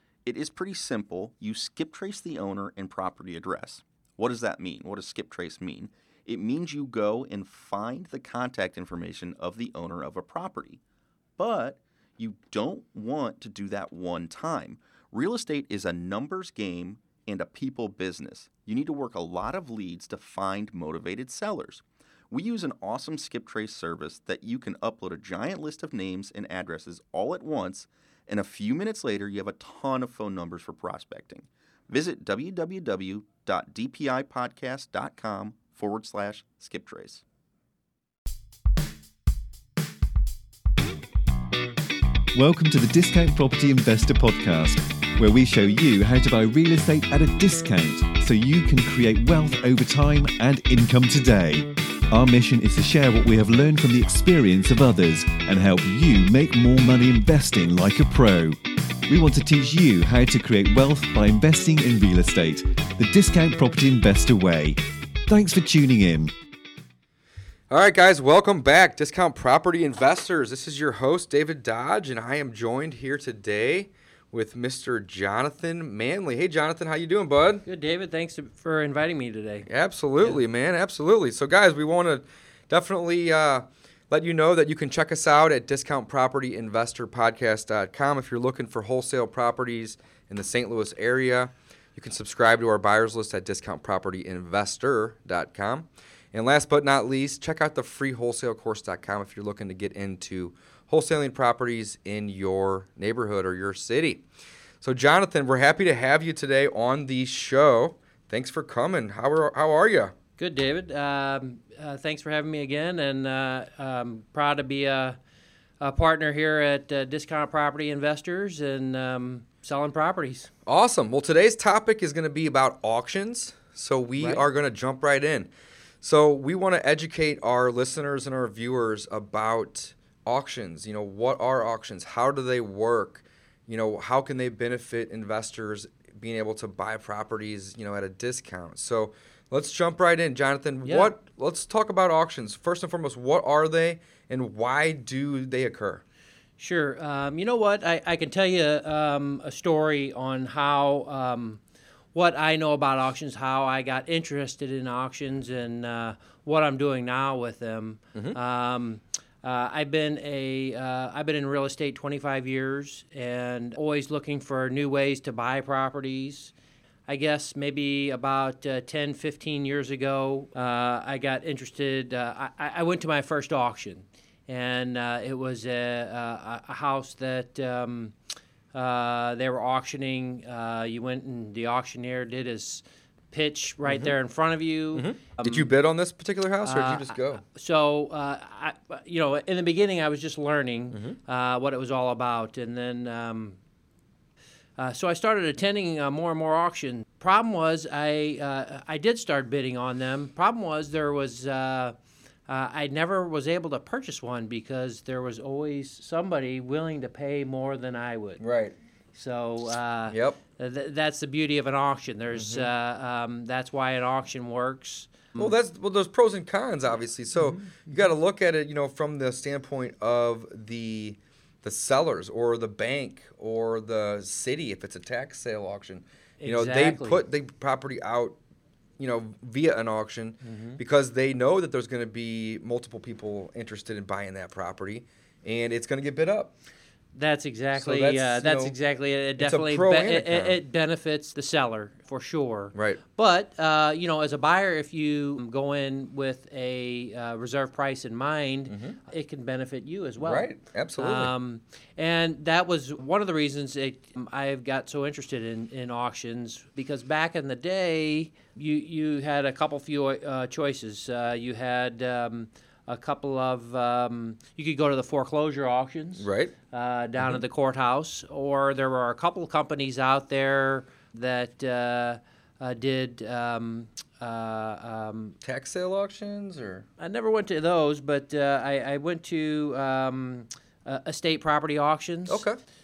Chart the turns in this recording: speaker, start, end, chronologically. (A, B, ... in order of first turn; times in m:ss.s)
0:00.2-0:10.8 A
0:11.4-0:37.2 A
0:42.3-0:58.6 B
0:59.1-1:06.3 B
1:07.7-1:17.6 C
1:17.6-1:19.7 D
1:19.7-1:44.2 C
1:44.8-1:50.1 C
1:50.4-1:55.2 D
1:55.8-2:00.5 D
2:00.7-2:05.5 C
2:06.0-2:26.0 C
2:20.8-2:21.1 D
2:26.6-2:31.6 D
2:32.1-2:46.5 D
2:47.1-2:58.2 D
2:58.7-3:05.7 D
3:03.9-3:04.1 C
3:05.0-3:07.4 C
3:06.6-3:13.6 D
3:14.8-3:22.0 D
3:22.5-3:28.4 D
3:28.4-3:28.8 C
3:29.1-3:35.5 D
3:30.1-3:30.4 C
3:32.4-3:32.7 C
3:35.4-3:48.4 C
3:37.4-3:37.7 D
3:46.4-3:47.2 D
3:49.0-3:56.5 C
3:50.4-3:50.8 D
3:57.1-4:35.4 D
3:57.8-3:58.8 C
3:59.4-4:00.6 C
4:02.7-4:03.0 C
4:08.7-4:09.0 C
4:10.2-4:11.3 C
4:26.2-4:26.5 C
4:35.4-4:36.9 C
4:37.0-4:42.4 D
4:42.3-4:42.6 C